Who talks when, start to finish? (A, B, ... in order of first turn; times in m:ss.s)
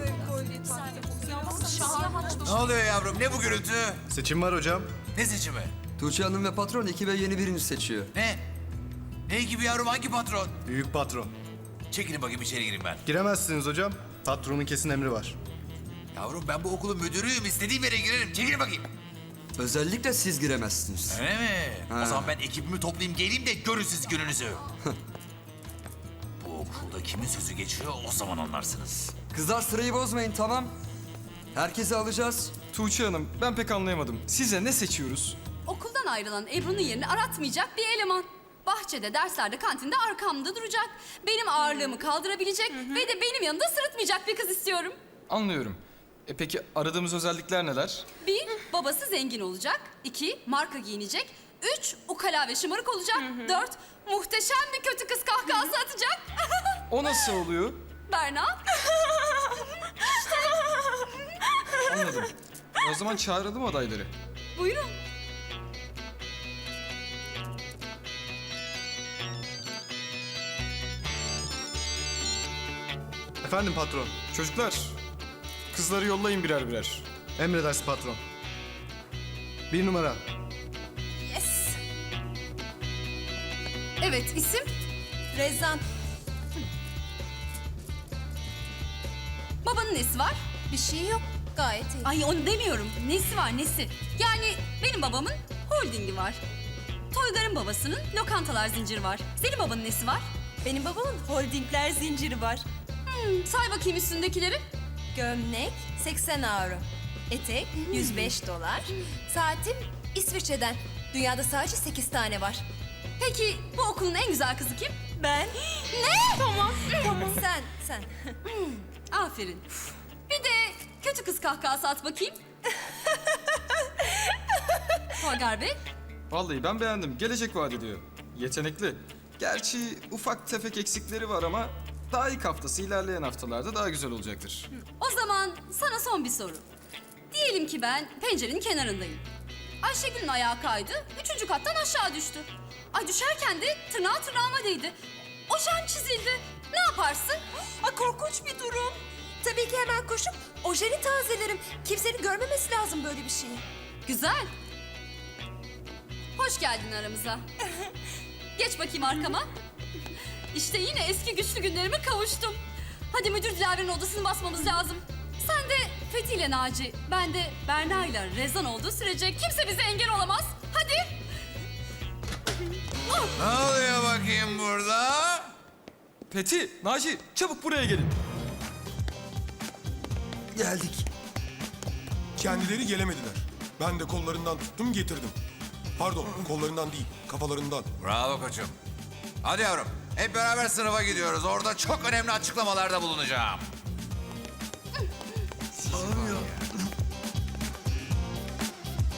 0:02.4-0:04.0 A
0:04.1-0:04.9 B
0:05.1-0:05.7 A
0:06.0-0:08.1 C
0:08.1-0:08.4 A
0:09.3-0:10.6 A
0:10.6-0:11.3 B
0:11.9-0:13.0 A
0:13.0-0:15.4 B
0:16.1-0:18.9 A
0:19.6-0:21.2 C
0:21.1-0:24.6 A
0:21.9-0:22.3 C
0:26.4-0:29.1 A
0:29.3-0:30.7 C
0:31.5-0:32.6 C
0:32.7-0:35.4 D
0:35.6-0:45.0 E
0:45.3-0:48.1 D
0:48.2-0:56.8 E
0:56.9-0:57.8 D
0:58.1-0:58.7 E
1:00.0-1:00.6 E
1:01.8-1:04.1 D
1:04.6-1:04.9 E
1:13.4-1:14.2 B
1:14.3-1:15.0 D
1:15.7-1:17.0 D
1:17.4-1:18.2 B
1:19.7-1:20.2 B
1:21.3-1:21.8 F
1:24.0-1:24.7 E
1:25.3-1:25.8 F
1:29.6-1:30.4 E
1:30.7-1:32.1 F
1:32.0-1:36.4 E
1:37.1-1:40.2 E
1:40.6-1:42.6 F
1:43.0-1:44.6 E
1:45.1-1:52.6 F
1:47.9-1:48.3 E
1:53.2-1:55.0 E
1:55.2-1:58.2 F
1:56.0-1:57.0 E
1:58.5-1:59.7 E
2:00.3-2:02.4 E
2:05.1-2:05.8 E
2:06.3-2:14.7 D
2:14.8-2:16.6 E
2:17.3-2:19.2 E
2:19.8-2:24.9 E
2:25.5-2:28.9 E
2:27.8-2:28.6 F
2:29.4-2:33.6 F
2:34.0-2:34.5 E
2:36.4-2:37.4 E
2:38.6-2:39.5 E
2:40.5-2:42.6 E
2:43.1-2:51.2 E
2:53.4-2:55.5 A
2:56.3-2:58.1 D
3:00.5-3:01.1 C
3:02.4-3:05.3 G
3:06.0-3:07.9 G
3:08.0-3:08.8 A
3:09.4-3:13.7 A
3:15.9-3:16.5 A